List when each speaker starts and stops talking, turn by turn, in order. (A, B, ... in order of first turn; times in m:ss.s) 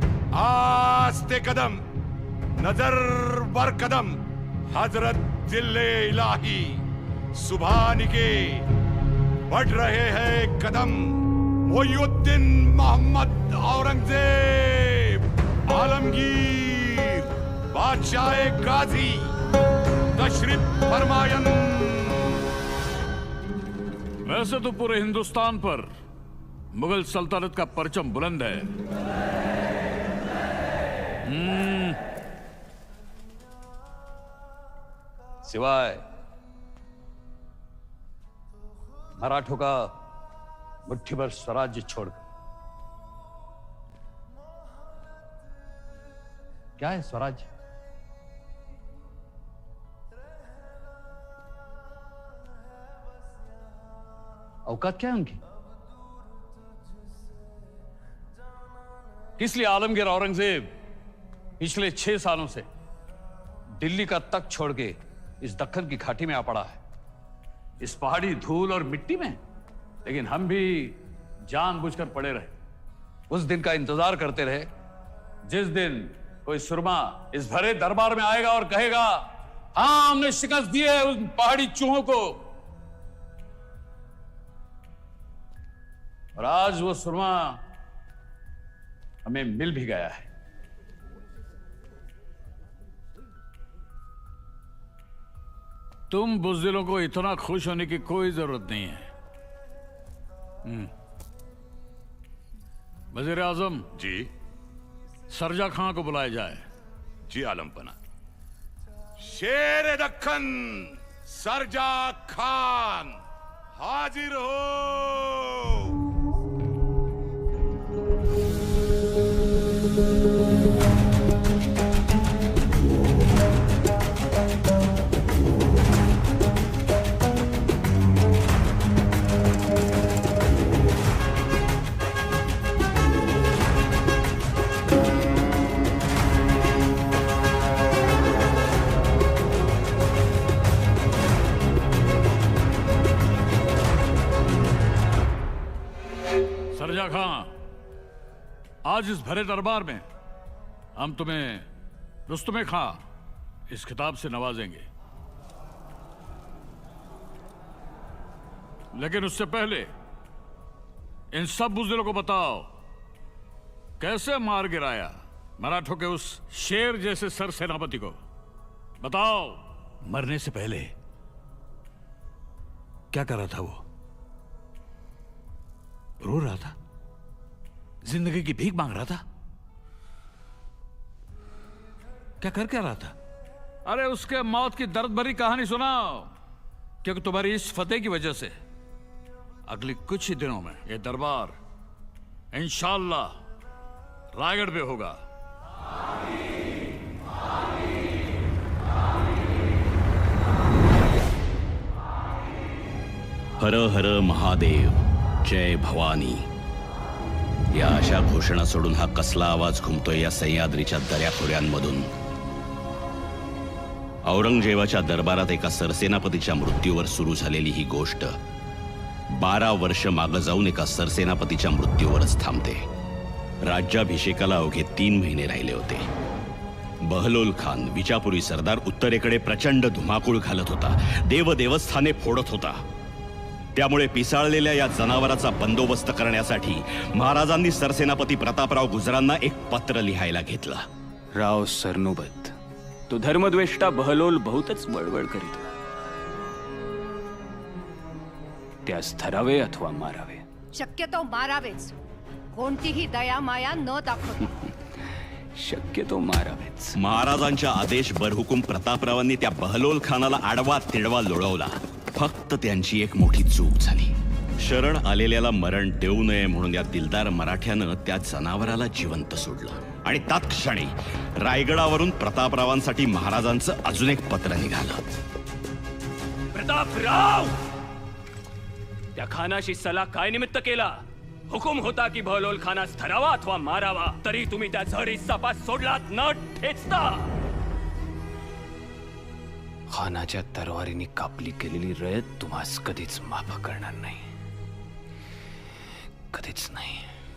0:00.3-0:01.8 A
0:02.6-0:04.2 A
0:04.7-0:06.8 A
0:07.4-0:08.7 A
0:09.5-0:19.4 A
0:20.2-0:22.4 A
0:24.2-0:25.9 B
0:26.7-0:28.7 B
0:31.2-0:32.0 B
0:35.4-0:36.0 C
0:39.2-0:40.0 C
0:40.9-0:42.2 C
0:46.8-0:47.5 C
0:54.7-0:55.4 C
0:59.4-1:00.7 C
0:59.8-1:00.4 B
1:01.6-1:01.8 C
1:01.8-1:02.6 B
1:03.8-1:06.8 C
1:07.8-1:09.4 C
1:10.0-1:11.0 C
1:11.5-1:11.9 C
1:11.6-1:12.5 B
1:13.3-1:14.7 C
1:15.5-1:16.0 B
1:15.6-1:22.1 C
1:16.6-1:17.0 B
1:17.6-1:19.0 B
1:21.5-1:22.3 B
1:26.4-1:27.6 C
1:29.2-1:30.3 C
1:36.1-1:39.1 B
1:40.6-1:40.9 B
1:43.1-1:44.0 B
1:44.0-1:44.3 A
1:45.3-1:46.6 B
1:47.3-1:48.0 A
1:49.2-1:53.2 A
1:53.8-1:56.0 A
2:26.7-2:27.5 B
2:28.8-2:30.0 B
2:31.0-2:31.7 B
2:32.3-2:33.0 B
2:33.7-2:34.9 B
2:38.9-2:39.9 B
2:41.3-2:42.7 B
2:44.0-2:48.2 B
2:49.0-2:50.9 B
2:53.1-2:53.8 B
2:56.2-2:56.8 B
2:58.0-2:59.2 B
3:02.4-3:03.2 B
3:03.8-3:06.3 B
3:07.0-3:08.6 B
3:09.7-3:11.6 B
3:12.5-3:13.4 B
3:14.4-3:15.2 B
3:23.6-3:26.5 D
3:27.7-3:32.1 D
3:34.3-3:38.3 D
3:39.3-3:42.8 D
3:43.6-3:46.1 D
3:47.0-3:52.8 D
3:53.8-4:00.9 D
4:01.3-4:02.5 E
4:03.1-4:05.6 E
4:08.8-4:10.4 E
4:10.7-4:12.0 F
4:12.5-4:14.5 F
4:15.6-4:17.0 E
4:17.0-4:35.0 D
4:36.5-4:37.6 E
4:39.2-4:40.9 E
4:41.5-4:47.3 E
4:49.9-4:54.3 E
4:56.3-4:57.1 E